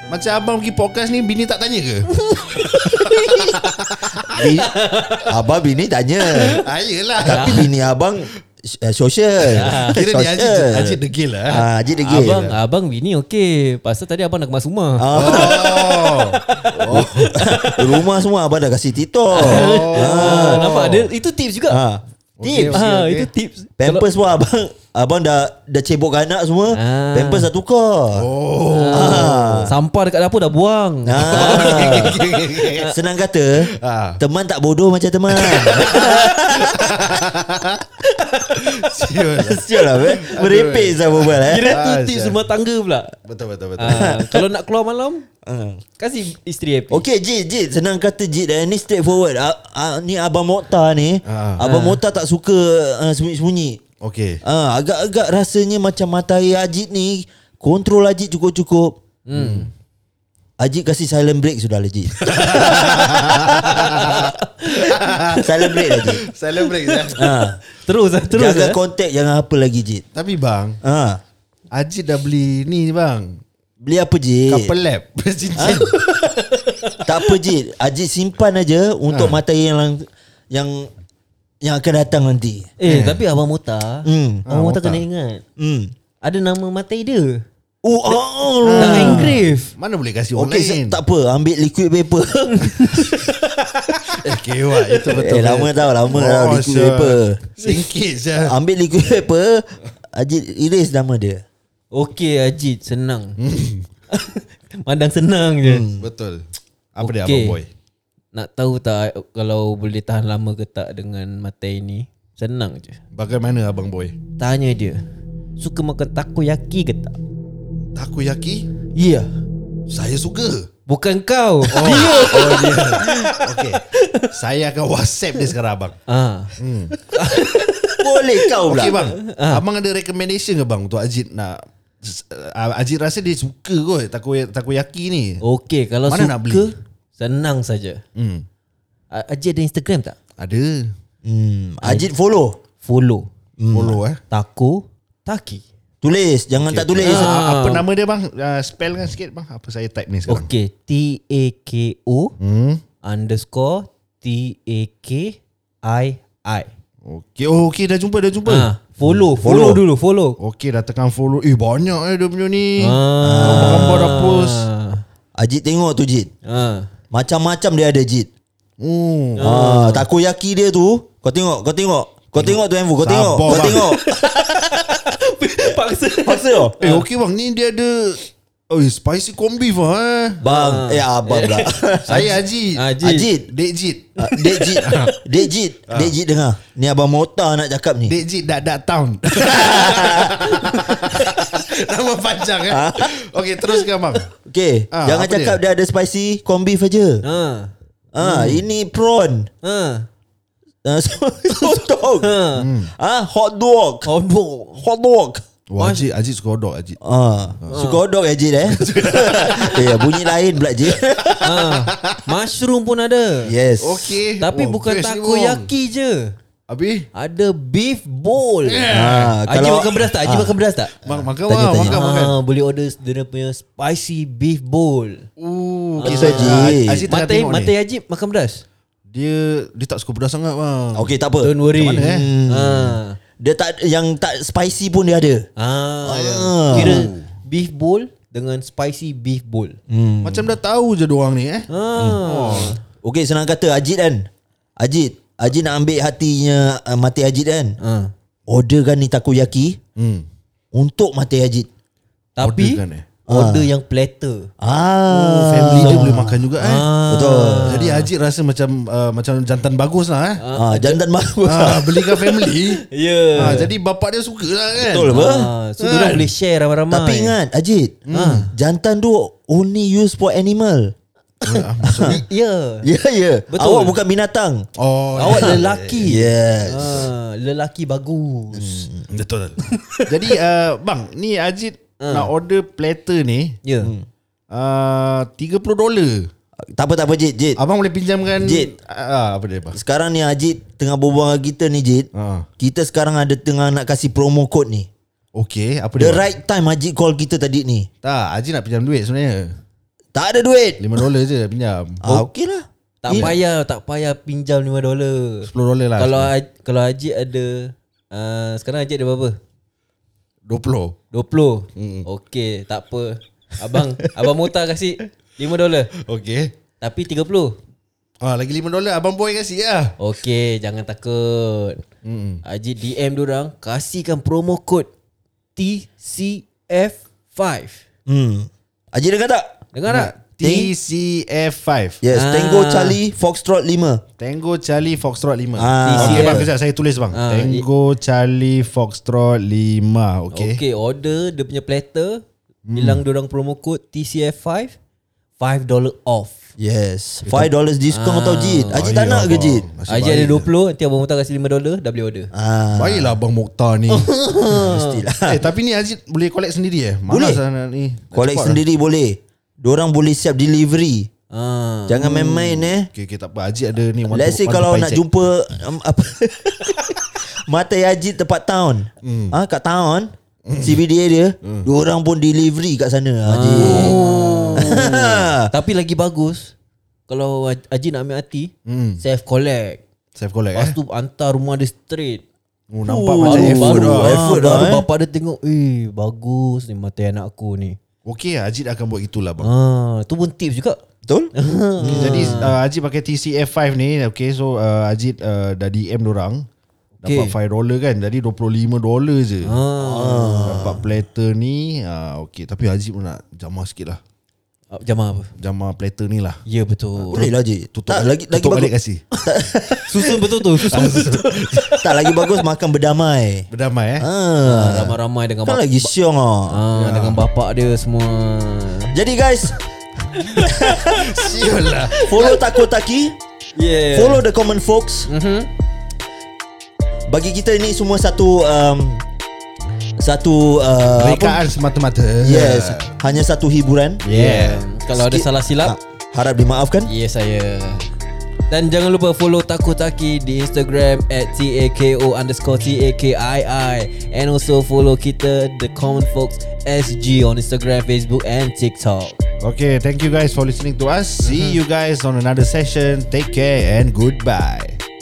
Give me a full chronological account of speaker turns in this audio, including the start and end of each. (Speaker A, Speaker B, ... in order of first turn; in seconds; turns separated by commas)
Speaker A: 0.1-2.1, Speaker B: 2.1-3.6, Speaker A: 2.6-4.6, Speaker C: 4.3-4.7, Speaker B: 4.4-5.3, Speaker C: 5.2-6.6, Speaker B: 6.3-6.6, Speaker A: 6.6-7.7, Speaker C: 7.2-12.5, Speaker B: 7.3-7.7, Speaker B: 9.5-10.0, Speaker A: 9.5-12.6, Speaker B: 12.1-18.0, Speaker C: 15.0-15.9, Speaker A: 15.1-17.4, Speaker C: 16.9-20.9, Speaker B: 19.3-21.8, Speaker A: 19.4-21.1, Speaker C: 21.7-22.8, Speaker A: 22.4-23.3, Speaker B: 22.7-24.1, Speaker C: 23.8-28.3, Speaker B: 26.7-27.5, Speaker A: 28.1-29.6, Speaker B: 28.7-33.0, Speaker C: 28.9-29.7, Speaker C: 31.1-32.2, Speaker A: 31.2-32.9, Speaker C: 32.9-37.2, Speaker A: 33.6-34.2, Speaker A: 35.3-37.9, Speaker B: 38.1-38.6, Speaker A: 38.5-42.4, Speaker C: 39.4-41.8, Speaker B: 41.4-43.1, Speaker A: 43.2-44.2, Speaker B: 43.8-45.2, Speaker C: 43.9-44.5, Speaker C: 45.4-45.8, Speaker B: 46.0-47.0, Speaker C: 46.9-53.8, Speaker A: 51.2-51.6, Speaker B: 51.6-52.0, Speaker A: 54.0-54.4, Speaker C: 54.4-59.0, Speaker B: 59.3-59.7, Speaker A: 59.3-59.7, Speaker C: 60.6-64.2, Speaker A: 62.2-67.2, Speaker B: 62.6-63.1, Speaker B: 63.7-66.0, Speaker C: 65.3-66.2, Speaker B: 66.7-68.8, Speaker C: 67.2-67.6, Speaker C: 68.3-70.0, Speaker A: 70.1-70.8, Speaker C: 70.8-71.2, Speaker A: 71.7-73.4, Speaker C: 73.8-74.7, Speaker A: 74.5-76.0, Speaker C: 75.6-75.9, Speaker B: 76.0-77.3, Speaker C: 77.0-80.9, Speaker A: 79.1-79.4, Speaker C: 81.6-82.7, Speaker B: 82.8-85.4, Speaker A: 82.8-83.2, Speaker C: 84.0-85.0, Speaker C: 85.6-85.9, Speaker B: 86.2-87.4, Speaker C: 87.8-89.4, Speaker A: 88.6-91.0, Speaker B: 88.8-89.7, Speaker C: 90.3-93.1, Speaker B: 92.4-95.6, Speaker A: 94.2-98.5, Speaker C: 95.1-97.4, Speaker C: 98.4-101.4, Speaker B: 101.9-103.4, Speaker A: 103.4-103.8, Speaker B: 104.1-105.9, Speaker C: 105.6-106.1, Speaker A: 106.0-106.4, Speaker A: 106.9-107.7, Speaker B: 107.0-107.6, Speaker B: 108.3-113.0, Speaker A: 113.1-114.1, Speaker B: 114.4-115.0, Speaker B: 115.6-117.1, Speaker A: 117.9-118.7, Speaker B: 118.9-119.3, Speaker A: 119.9-120.7, Speaker B: 120.9-124.3, Speaker A: 121.7-126.0, Speaker B: 126.1-126.5, Speaker A: 126.6-126.9, Speaker B: 127.1-129.6, Speaker C: 128.0-129.0, Speaker A: 128.6-135.4, Speaker B: 135.4-138.0, Speaker A: 136.1-136.7, Speaker A: 138.2-138.4, Speaker B: 139.1-140.2, Speaker A: 140.4-140.9, Speaker C: 141.2-142.6, Speaker B: 142.8-143.3, Speaker C: 143.6-144.0, Speaker A: 143.7-144.2, Speaker B: 144.3-145.6, Speaker C: 146.0-147.4, Speaker A: 146.6-150.5, Speaker B: 147.0-147.8, Speaker B: 150.3-152.3, Speaker A: 152.4-152.8, Speaker B: 153.0-156.7, Speaker A: 157.0-159.2, Speaker B: 158.4-160.4, Speaker C: 159.4-159.8, Speaker A: 160.4-164.7, Speaker B: 162.8-165.0, Speaker C: 163.2-164.2, Speaker C: 165.3-166.3, Speaker B: 166.4-166.9, Speaker C: 167.1-168.3, Speaker A: 168.8-169.5, Speaker B: 169.4-170.1, Speaker C: 169.4-174.1, Speaker A: 172.4-173.9, Speaker B: 173.7-177.0, Speaker C: 176.2-176.8, Speaker A: 176.8-180.4, Speaker C: 180.4-182.2, Speaker B: 180.4-183.3, Speaker A: 182.1-182.8, Speaker C: 183.0-183.5, Speaker A: 183.4-184.2, Speaker C: 184.2-188.2, Speaker B: 184.3-185.2, Speaker A: 184.8-185.1, Speaker A: 188.1-194.3, Speaker C: 189.4-190.5, Speaker B: 190.6-191.3, Speaker C: 192.7-193.2, Speaker C: 194.4-197.2, Speaker A: 194.9-195.6, Speaker B: 197.2-198.6, Speaker C: 198.1-199.5, Speaker B: 199.6-200.1, Speaker C: 200.8-202.3, Speaker B: 202.2-202.7, Speaker A: 202.6-202.9, Speaker C: 202.9-204.1, Speaker B: 204.1-204.8, Speaker C: 204.8-205.4, Speaker A: 205.7-207.0, Speaker B: 205.8-206.0, Speaker C: 207.0-211.5, Speaker B: 207.7-208.0, Speaker A: 208.6-210.2, Speaker A: 210.8-212.2, Speaker B: 211.4-213.5, Speaker C: 213.5-214.2, Speaker A: 213.8-215.7, Speaker B: 214.4-216.3, Speaker A: 216.7-217.1, Speaker B: 217.1-218.9, Speaker A: 218.6-219.4, Speaker C: 218.9-220.6, Speaker B: 219.5-220.9, Speaker A: 221.0-222.3, Speaker C: 221.1-222.0, Speaker B: 221.9-225.3, Speaker A: 225.4-227.7, Speaker B: 226.0-228.6, Speaker C: 226.0-227.0, Speaker A: 229.1-231.1, Speaker C: 230.9-235.5, Speaker B: 231.4-233.2, Speaker A: 231.7-232.3, Speaker B: 235.6-239.8, Speaker C: 236.0-237.1, Speaker A: 236.6-237.3, Speaker C: 239.9-240.5, Speaker A: 240.2-241.7, Speaker B: 241.7-242.8, Speaker C: 241.9-242.2, Speaker A: 242.2-242.8, Speaker C: 243.0-244.3, Speaker C: 244.8-247.8, Speaker B: 247.8-248.1, Speaker C: 248.5-249.8, Speaker A: 250.0-250.2, Speaker C: 250.7-251.7, Speaker B: 252.3-254.5, Speaker A: 252.4-253.1, Speaker C: 253.3-253.7, Speaker C: 254.6-256.4, Speaker A: 255.1-256.9, Speaker B: 255.7-258.1, Speaker C: 257.1-257.8, Speaker A: 257.6-260.4, Speaker B: 260.4-261.0, Speaker C: 260.5-262.2, Speaker A: 261.4-262.8, Speaker B: 262.6-263.7, Speaker A: 263.4-265.1, Speaker C: 263.4-263.6, Speaker C: 264.9-265.5, Speaker B: 265.1-267.4, Speaker A: 265.8-266.3, Speaker C: 266.9-270.9, Speaker A: 268.1-268.5, Speaker B: 268.1-268.5, Speaker A: 271.4-272.2, Speaker C: 271.9-272.2, Speaker B: 271.9-272.9, Speaker C: 272.8-274.7, Speaker B: 273.5-273.9, Speaker A: 274.8-276.2, Speaker B: 275.1-278.9, Speaker C: 275.3-277.1, Speaker C: 278.5-279.1, Speaker A: 279.1-283.6, Speaker B: 279.6-280.2, Speaker B: 282.0-282.3, Speaker B: 283.6-283.9, Speaker C: 283.8-284.1, Speaker A: 284.5-286.3, Speaker C: 286.6-287.6, Speaker A: 287.6-289.8, Speaker C: 288.4-288.7, Speaker C: 289.7-292.1, Speaker A: 292.1-292.5, Speaker C: 292.6-294.9, Speaker A: 295.3-296.3, Speaker C: 296.0-297.9, Speaker A: 298.0-299.5, Speaker C: 300.1-301.0, Speaker A: 300.8-302.2, Speaker C: 302.0-303.3, Speaker B: 303.0-309.4, Speaker A: 303.1-303.4, Speaker A: 305.5-306.3, Speaker A: 310.5-310.9, Speaker B: 311.1-315.9, Speaker A: 311.8-312.1, Speaker A: 316.0-316.5, Speaker B: 316.8-317.6, Speaker A: 318.2-319.9, Speaker B: 320.0-321.8, Speaker A: 322.0-322.4, Speaker B: 322.4-324.9, Speaker B: 325.6-327.8, Speaker C: 328.1-329.6, Speaker B: 329.7-330.1, Speaker A: 329.9-332.0, Speaker C: 330.4-330.7, Speaker C: 332.0-334.0, Speaker B: 332.1-333.0, Speaker A: 334.2-340.6, Speaker C: 335.6-336.5, Speaker B: 335.8-336.5, Speaker B: 337.1-337.6, Speaker B: 340.3-342.2, Speaker A: 342.7-343.0, Speaker B: 342.7-344.7, Speaker B: 345.4-346.5, Speaker C: 346.6-349.6, Speaker B: 347.2-348.8, Speaker A: 348.7-350.5, Speaker B: 349.9-352.3, Speaker C: 352.3-353.2, Speaker A: 352.7-354.1, Speaker B: 353.9-355.0, Speaker C: 354.5-355.4, Speaker A: 355.2-358.6, Speaker C: 357.1-357.4, Speaker C: 358.1-361.1, Speaker B: 361.3-362.7, Speaker C: 361.9-362.9, Speaker A: 362.9-365.0, Speaker C: 364.1-375.5, Speaker A: 369.0-369.4, Speaker A: 370.4-370.8, Speaker A: 371.4-371.7, Speaker B: 373.2-376.5, Speaker A: 373.6-374.8, Speaker B: 377.1-379.8, Speaker A: 378.6-379.0, Speaker A: 380.1-380.8, Speaker B: 380.5-382.2, Speaker A: 382.7-384.4, Speaker C: 382.8-384.9, Speaker B: 383.2-387.8, Speaker A: 388.0-389.5, Speaker B: 389.4-390.8, Speaker C: 391.1-392.4, Speaker B: 391.3-392.6, Speaker A: 391.8-396.4, Speaker B: 397.0-397.3, Speaker A: 397.0-399.5, Speaker B: 399.4-400.7, Speaker C: 399.8-400.8, Speaker A: 400.4-404.0, Speaker B: 404.7-405.3, Speaker A: 405.4-406.4, Speaker B: 406.4-407.3, Speaker C: 407.1-408.7, Speaker A: 407.7-409.1, Speaker C: 409.2-410.2, Speaker B: 409.9-412.2, Speaker A: 410.5-411.7, Speaker C: 411.7-413.5, Speaker A: 413.5-414.1, Speaker C: 414.0-416.6, Speaker B: 414.4-415.9, Speaker B: 416.5-418.9, Speaker A: 416.7-417.2, Speaker C: 418.9-419.6, Speaker C: 420.3-421.1, Speaker A: 420.4-422.4, Speaker C: 421.9-423.2, Speaker B: 423.6-424.2, Speaker C: 423.9-425.1, Speaker B: 425.1-425.5, Speaker C: 427.1-429.0, Speaker C: 430.0-431.4, Speaker A: 431.0-432.9, Speaker C: 432.2-434.0, Speaker A: 434.0-434.6, Speaker B: 434.1-435.8, Speaker C: 434.9-436.9, Speaker B: 436.8-437.9, Speaker B: 438.5-449.2, Speaker A: 449.4-454.8, Speaker B: 451.2-451.6